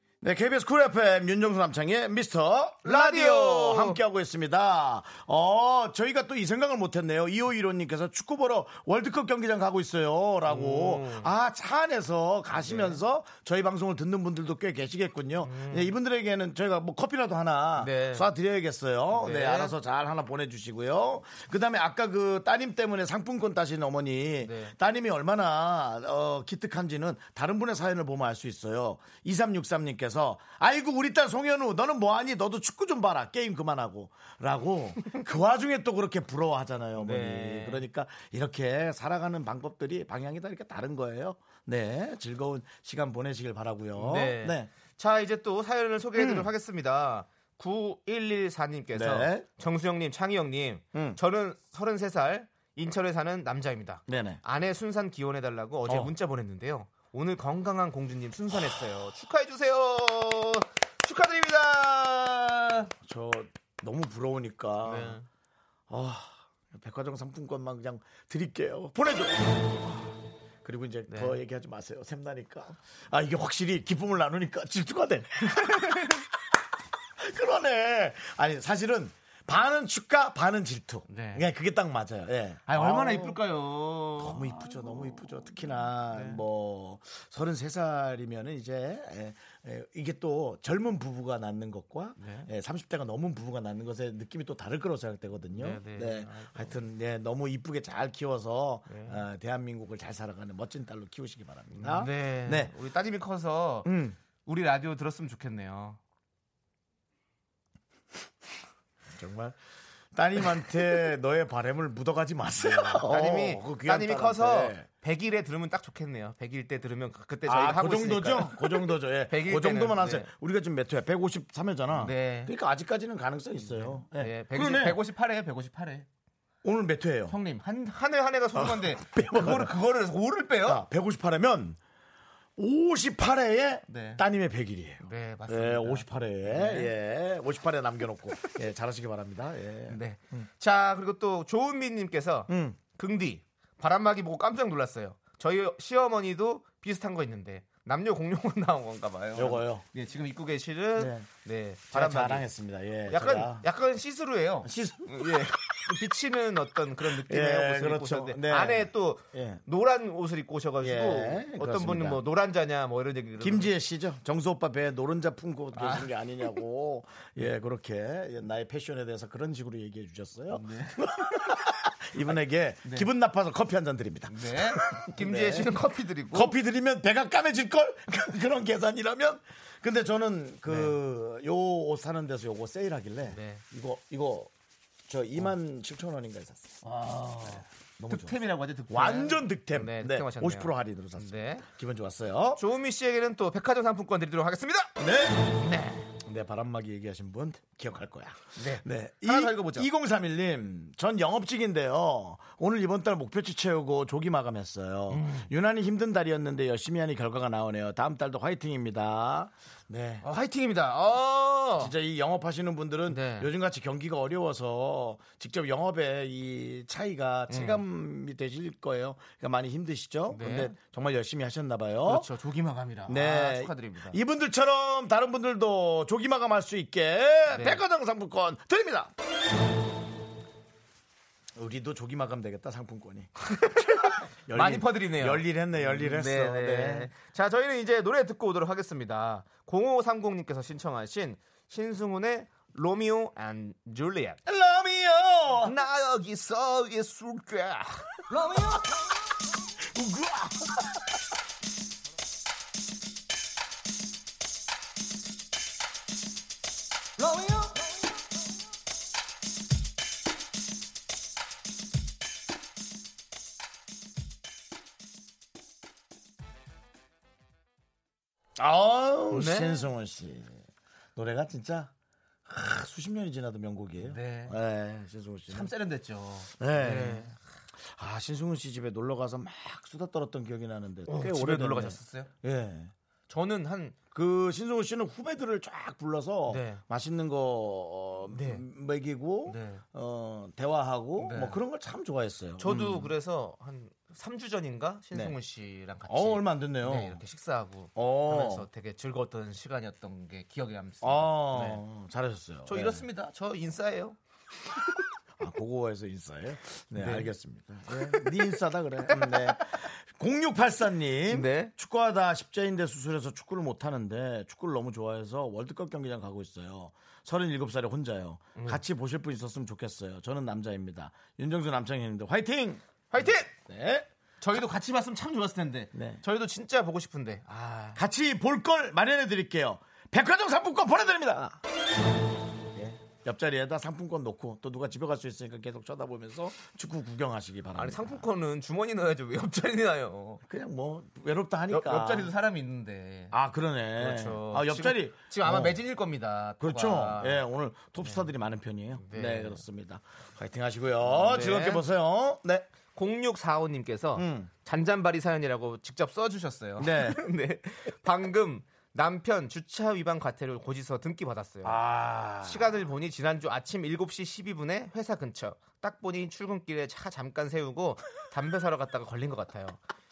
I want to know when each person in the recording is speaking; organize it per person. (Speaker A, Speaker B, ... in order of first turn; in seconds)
Speaker A: 0.2-44.7, 46.1-46.5, 48.9-49.5, 50.9-51.2, 54.1-54.4, 55.9-56.1, 63.0-65.2, 65.9-76.2, 77.2-83.4, 84.2-102.7, 103.8-104.2, 109.1-109.6, 110.1-114.9, 117.5-125.0, 126.6-127.3, 128.5-129.7, 130.6-131.8, 132.6-140.5, 142.5-142.8, 149.3-149.8, 151.0-151.3, 151.9-153.7, 154.6-155.5, 157.0-159.6, 160.8-162.2, 163.4-175.7, 176.3-184.5, 185.1-186.8, 187.4-188.4, 188.9-192.6, 195.0-195.6, 196.1-210.3, 211.8-222.3, 223.1-229.1, 231.6-237.1, 244.4-245.8, 248.4-248.8, 249.8-251.0, 268.6-270.6, 271.1-271.9, 272.5-275.7, 276.6-277.3, 277.8-282.9, 284.1-293.1, 296.1-297.2, 297.9-298.7, 301.0-303.0, 305.4-324.1, 325.9-326.2, 327.9-331.6, 332.7-338.2, 340.4-342.3, 343.3-345.8, 346.6-352.7, 354.1-354.5, 356.8-357.2, 361.6-362.8
Speaker B: 2.8-4.0, 10.5-11.3, 12.6-13.0, 15.4-15.9, 17.8-18.3, 19.1-19.7, 24.4-24.7, 37.0-37.8, 44.0-62.9, 64.8-65.2, 71.1-71.4, 75.8-76.2, 81.1-81.5, 82.7-85.3, 86.1-86.4, 92.2-92.5, 95.5-96.8, 98.9-99.2, 101.7-103.9, 104.4-106.0, 112.6-120.3, 121.9-122.5, 123.6-126.1, 127.3-130.8, 133.9-134.2, 135.0-136.9, 139.9-152.5, 153.1-163.7, 165.7-166.1, 170.5-171.5, 174.3-176.5, 180.7-181.0, 183.3-183.6, 186.8-191.7, 192.6-195.0, 195.5-196.1, 198.6-199.9, 205.1-205.5, 210.2-211.9, 213.1-213.5, 217.5-217.8, 220.3-220.7, 222.1-224.2, 227.5-227.8, 233.5-244.4, 245.6-248.0, 269.3-269.9, 274.0-274.6, 275.5-277.4, 281.1-282.3, 283.3-284.0, 286.5-286.8, 288.3-288.6, 289.4-289.8, 291.2-291.6, 292.6-301.8, 302.7-304.2, 306.9-307.3, 307.9-308.3, 309.1-309.6, 311.3-311.7, 318.6-318.8, 323.1-323.5, 324.4-328.0, 337.7-340.4, 341.7-343.3, 344.0-347.5, 349.0-349.6, 351.0-351.9, 352.9-361.8, 362.4-369.8